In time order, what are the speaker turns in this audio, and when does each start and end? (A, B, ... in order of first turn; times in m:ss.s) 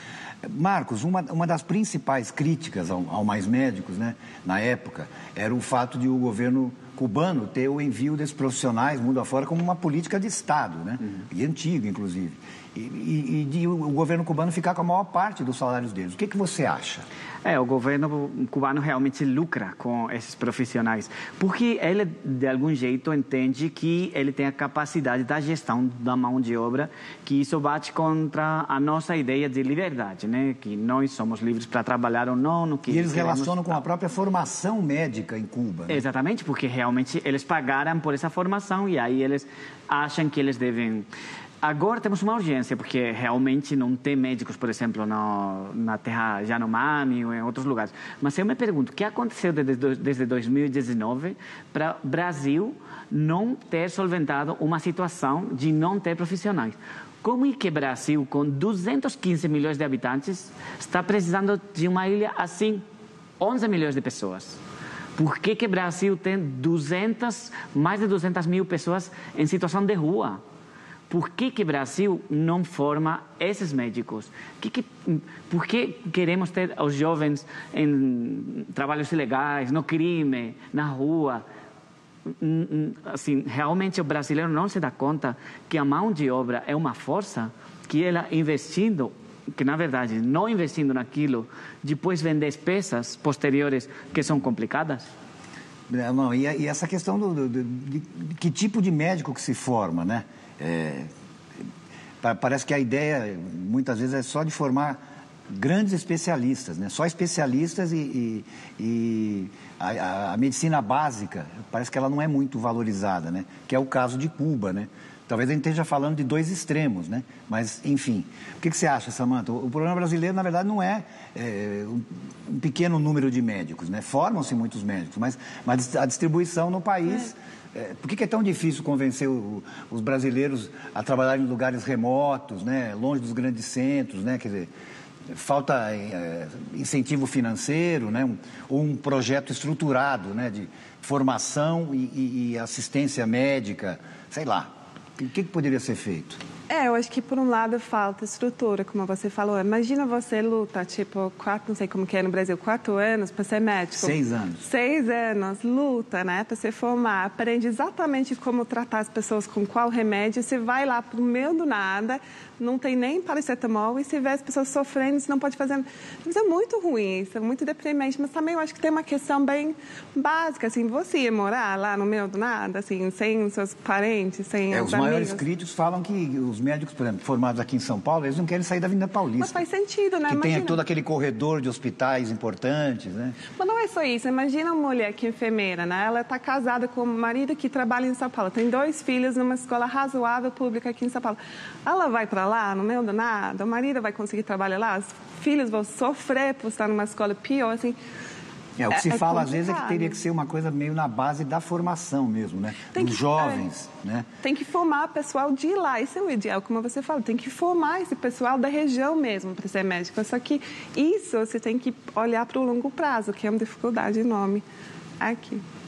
0:00.4-0:17.1 A
0:17.4-0:33.8 B
0:32.9-0:36.0 A
0:35.9-0:41.1 B
0:41.6-1:02.8 B
1:03.4-1:04.6 B
1:05.2-1:10.4 B
1:11.1-1:21.5 B
1:22.4-1:35.1 B
1:35.9-1:41.1 A
1:42.2-2:14.7 A
2:15.3-2:26.4 A
2:26.7-2:55.4 C
2:34.0-2:34.6 A
2:54.7-2:59.6 A
2:59.4-3:00.8 C
3:00.3-3:03.4 A
3:03.6-3:18.0 C
3:18.8-3:24.3 A
3:18.9-3:20.2 C
3:22.9-3:23.6 C
3:24.4-3:34.6 C
3:35.2-3:35.6 C